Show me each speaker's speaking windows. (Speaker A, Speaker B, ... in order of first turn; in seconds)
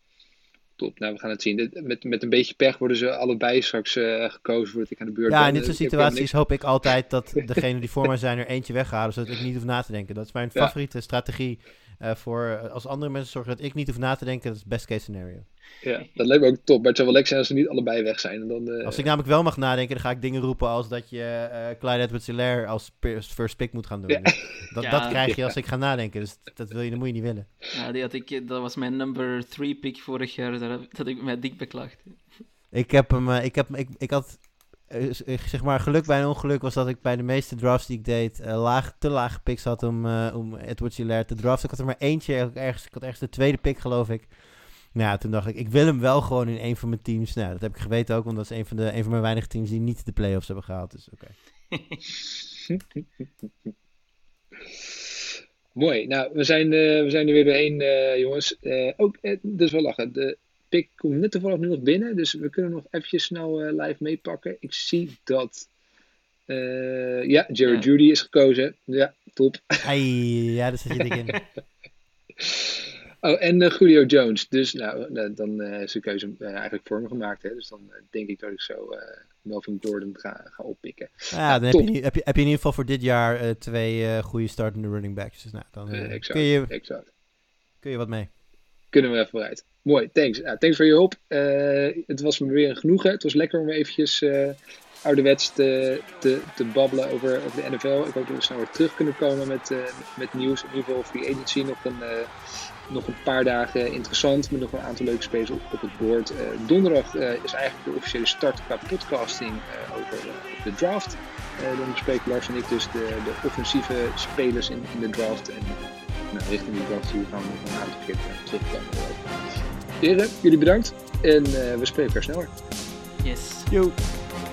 Speaker A: 0.8-6.4, 15.8-19.1, 24.1-25.5, 55.7-65.7, 66.5-69.9, 72.4-81.8, 85.9-87.1, 88.9-102.3, 102.9-119.2, 120.0-122.5
Speaker B: 5.3-15.4, 18.8-27.5, 32.7-51.4, 69.8-71.3, 81.3-86.7, 87.8-88.3, 123.7-124.0
Speaker C: 24.8-25.2, 27.7-32.4, 51.7-52.0, 123.2-123.7